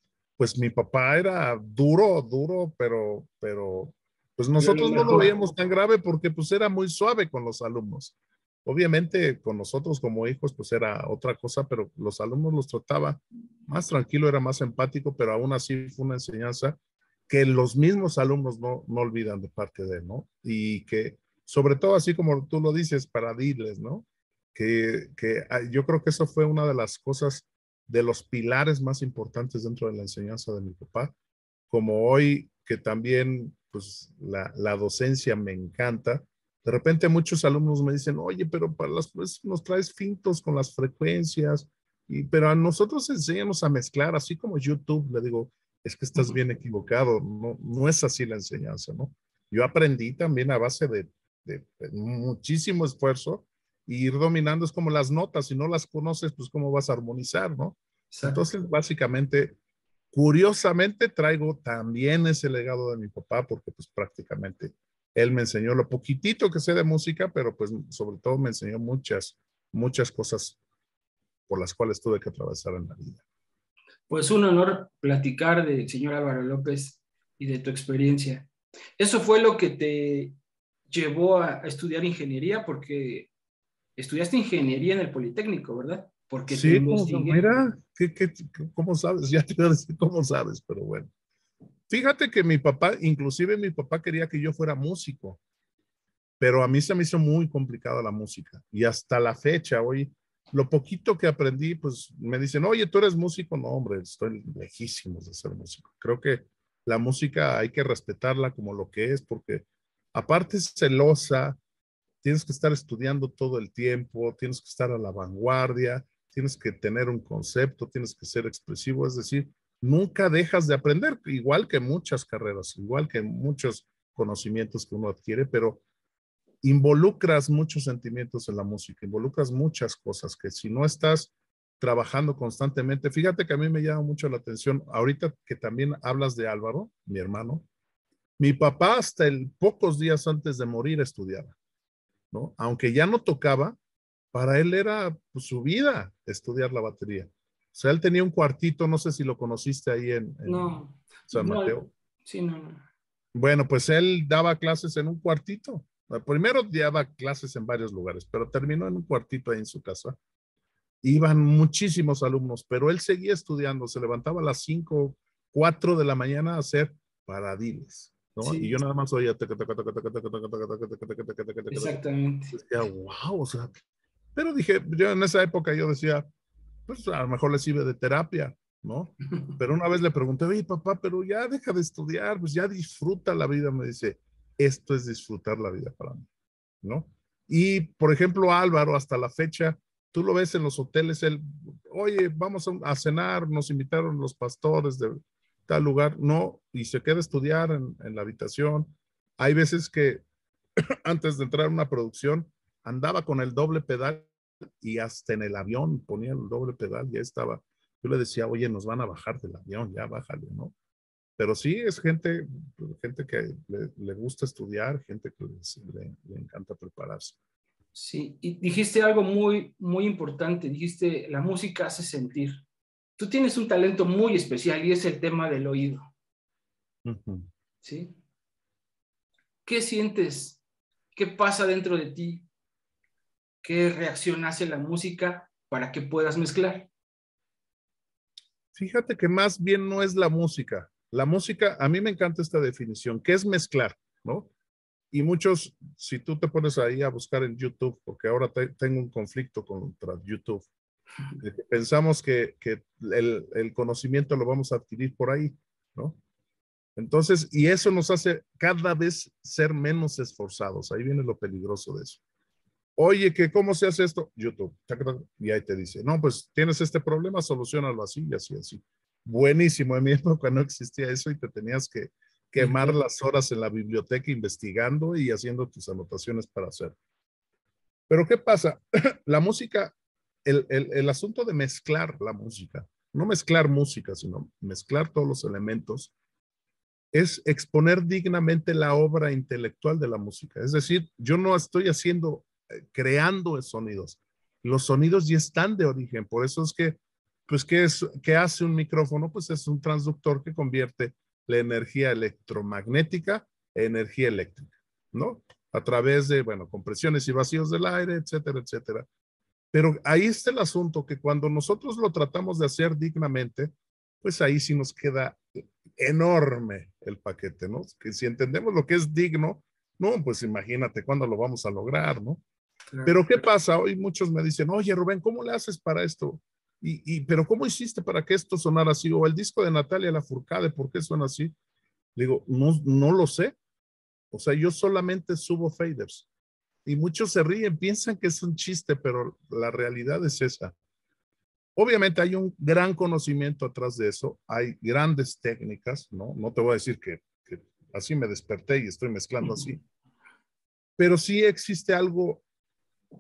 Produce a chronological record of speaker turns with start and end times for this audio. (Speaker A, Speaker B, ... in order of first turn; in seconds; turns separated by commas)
Speaker A: 0.4-16.8, Speaker B: 4.6-5.3, Speaker A: 17.3-31.1, Speaker A: 31.7-59.5, Speaker B: 58.1-58.4, Speaker A: 60.1-70.6, Speaker A: 71.5-73.2, Speaker B: 74.1-80.3, Speaker B: 80.9-83.3, Speaker B: 84.0-87.6, Speaker A: 86.5-91.1, Speaker A: 91.9-95.4, Speaker A: 96.4-111.6, Speaker A: 112.2-125.8, Speaker A: 126.6-137.7, Speaker A: 138.4-141.6, Speaker A: 142.3-143.8, Speaker A: 144.3-151.9, Speaker B: 150.4-152.9, Speaker A: 153.3-160.2, Speaker A: 161.0-173.8, Speaker B: 168.4-168.8, Speaker B: 171.7-172.5, Speaker A: 174.3-176.3, Speaker A: 176.9-186.3, Speaker A: 186.8-200.2, Speaker A: 201.0-204.3, Speaker A: 204.8-210.7, Speaker A: 211.4-217.4, Speaker B: 217.9-222.6, Speaker B: 223.2-226.1, Speaker A: 227.0-227.5, Speaker B: 227.8-228.2, Speaker B: 229.6-230.6, Speaker B: 231.1-232.4, Speaker B: 233.6-236.9, Speaker A: 238.8-244.5, Speaker A: 245.1-250.7, Speaker A: 251.4-256.2, Speaker A: 256.9-262.2, Speaker A: 263.0-276.9, Speaker B: 272.6-273.0, Speaker A: 278.1-279.9, Speaker A: 280.4-286.1, Speaker A: 287.1-309.1, Speaker A: 309.7-313.7, Speaker A: 314.2-322.4, Speaker B: 322.9-323.2, Speaker A: 323.0-331.5, Speaker A: 332.1-333.5, Speaker A: 334.3-336.2, Speaker A: 336.8-340.7, Speaker A: 341.8-349.8, Speaker A: 351.0-352.4